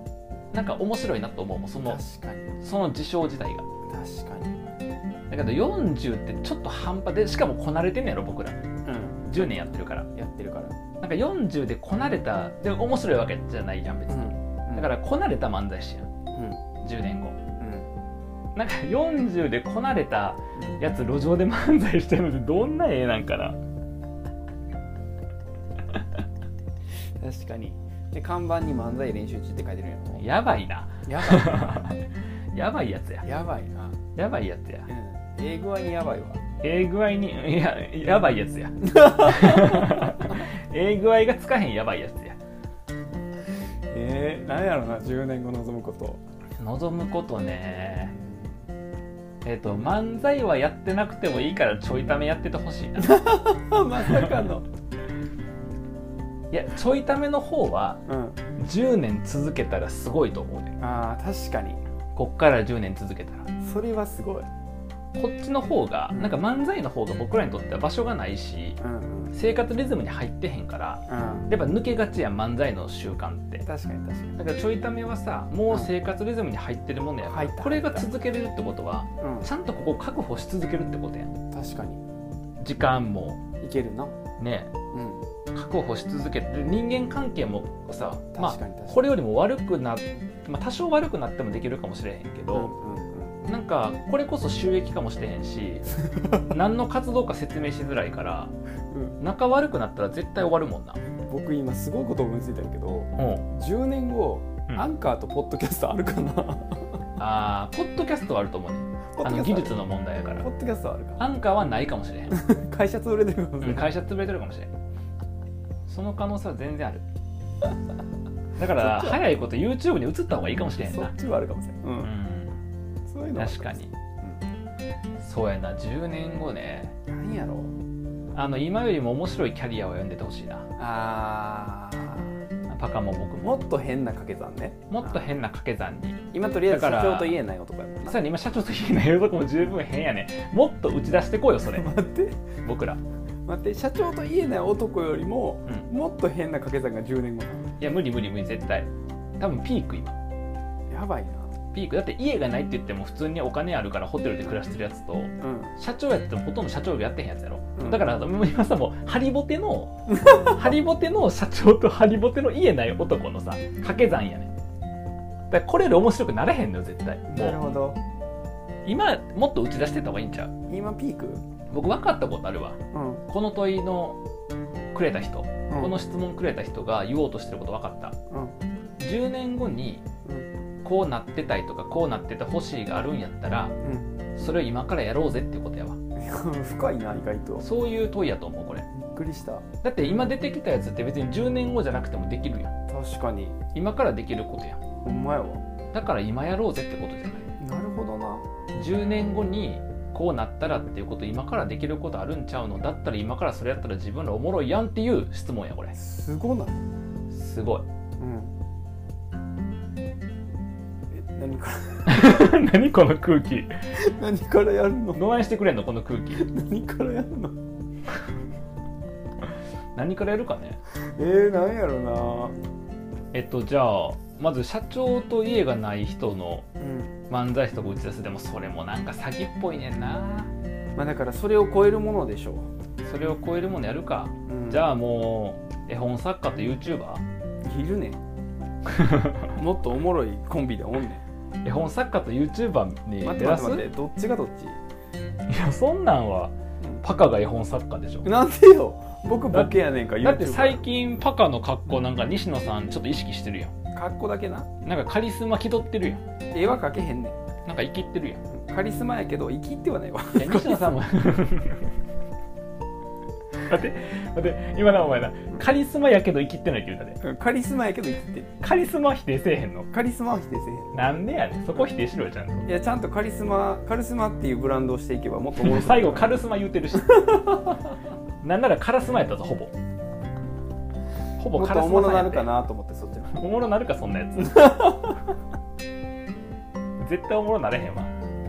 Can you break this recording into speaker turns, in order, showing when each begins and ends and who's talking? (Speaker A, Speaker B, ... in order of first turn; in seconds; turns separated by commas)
Speaker A: 0.5-2.0, Speaker B: 1.8-2.6, Speaker A: 2.6-3.7, Speaker B: 3.9-4.7, Speaker A: 5.3-8.6, Speaker B: 8.8-10.8, Speaker A: 9.3-10.1, Speaker A: 11.0-16.1, Speaker B: 14.1-14.9, Speaker B: 16.3-16.6, Speaker A: 16.8-17.4, Speaker B: 17.6-17.9, Speaker A: 18.6-23.6, Speaker B: 20.6-20.8, Speaker B: 27.2-30.3, Speaker A: 30.1-33.3, Speaker B: 31.1-32.0, Speaker B: 33.2-34.0, Speaker A: 34.2-34.9, Speaker B: 34.9-36.4, Speaker A: 36.6-42.4, Speaker B: 38.8-40.4, Speaker B: 43.9-46.2, Speaker A: 46.6-48.1, Speaker B: 48.0-48.6, Speaker A: 49.4-53.2, Speaker B: 53.0-54.7, Speaker A: 56.5-58.0, Speaker B: 58.1-58.4, Speaker A: 58.6-60.7, Speaker B: 60.8-61.8, Speaker A: 62.1-63.5, Speaker B: 63.6-64.5, Speaker A: 65.2-68.8, Speaker B: 66.1-66.4, Speaker B: 68.8-69.3, Speaker A: 69.3-73.7, Speaker B: 71.1-71.5, Speaker B: 73.7-74.4, Speaker A: 74.4-81.3, Speaker B: 77.2-78.1, Speaker B: 79.2-79.5, Speaker B: 81.5-82.0, Speaker A: 82.6-83.4, Speaker B: 83.6-84.2, Speaker A: 84.4-84.7, Speaker B: 84.9-85.2, Speaker A: 85.5-92.7, Speaker B: 88.3-89.0, Speaker B: 92.5-93.4, Speaker A: 93.5-98.5, Speaker B: 98.9-99.2, Speaker A: 99.2-101.0, Speaker B: 101.3-107.0, Speaker A: 103.2-103.5, Speaker A: 107.2-110.5, Speaker B: 109.2-109.8, Speaker B: 110.4-111.2, Speaker A: 111.2-112.3, Speaker B: 112.3-113.9, Speaker A: 113.6-114.7, Speaker A: 115.9-117.0, Speaker A: 118.6-121.1, Speaker B: 118.8-119.2, Speaker B: 120.8-122.1, Speaker A: 122.0-122.6, Speaker B: 123.1-124.4, Speaker A: 123.4-123.9, Speaker A: 125.2-127.0, Speaker B: 127.1-127.7, Speaker A: 128.3-130.7, Speaker B: 130.8-132.3, Speaker A: 132.7-133.6, Speaker B: 133.4-135.3, Speaker A: 134.9-137.4, Speaker B: 136.3-138.2, Speaker A: 138.1-141.9, Speaker B: 141.7-142.5, Speaker A: 142.6-143.0, Speaker B: 143.5-147.7, Speaker A: 147.8-150.2, Speaker B: 150.9-151.5, Speaker A: 151.7-164.5, Speaker B: 155.4-155.7, Speaker B: 157.8-158.1, Speaker B: 160.1-160.6, Speaker A: 165.5-167.6, Speaker B: 167.3-168.0, Speaker A: 168.8-170.5, Speaker B: 170.7-171.4, Speaker A: 171.7-174.2, Speaker B: 172.9-173.2, Speaker A: 174.9-178.2, Speaker B: 175.7-175.9, Speaker B: 178.3-178.6, Speaker A: 179.0-180.0, Speaker A: 180.8-183.8, Speaker B: 183.8-184.2, Speaker A: 184.3-186.0, Speaker B: 186.2-187.7, Speaker A: 187.6-188.9, Speaker B: 188.9-189.7, Speaker A: 189.8-192.7, Speaker B: 192.9-193.6, Speaker A: 193.7-194.8, Speaker B: 195.0-195.6, Speaker A: 195.9-197.5, Speaker B: 197.6-198.5, Speaker A: 198.8-205.9, Speaker B: 205.9-206.8, Speaker A: 207.3-207.9, Speaker B: 208.2-208.5, Speaker B: 211.1-212.5, Speaker A: 212.1-213.8, Speaker B: 213.9-215.2, Speaker A: 215.1-216.5, Speaker B: 216.3-217.6, Speaker A: 220.0-220.8, Speaker B: 221.2-222.6, Speaker A: 223.3-226.7, Speaker B: 226.8-227.2, Speaker A: 227.3-230.5, Speaker B: 230.9-232.7, Speaker A: 233.0-237.2, Speaker B: 234.5-234.9, Speaker B: 237.6-238.2, Speaker A: 238.9-239.5, Speaker B: 239.6-241.2, Speaker A: 241.6-243.9, Speaker B: 243.2-244.8, Speaker A: 245.5-248.3, Speaker B: 248.2-250.8, Speaker A: 249.5-253.7, Speaker B: 253.9-254.7, Speaker A: 254.8-256.2, Speaker B: 256.5-257.4, Speaker A: 257.7-258.4, Speaker B: 258.5-261.0, Speaker A: 260.4-261.9, Speaker A: 263.5-267.2, Speaker B: 267.2-268.5, Speaker A: 268.6-269.9, Speaker B: 269.9-270.9, Speaker A: 270.9-272.7, Speaker B: 272.7-276.4, Speaker A: 275.6-277.8, Speaker A: 278.4-279.7, Speaker A: 281.4-282.5, Speaker B: 281.5-283.4, Speaker A: 283.3-285.1, Speaker B: 284.8-285.1, Speaker A: 287.0-288.1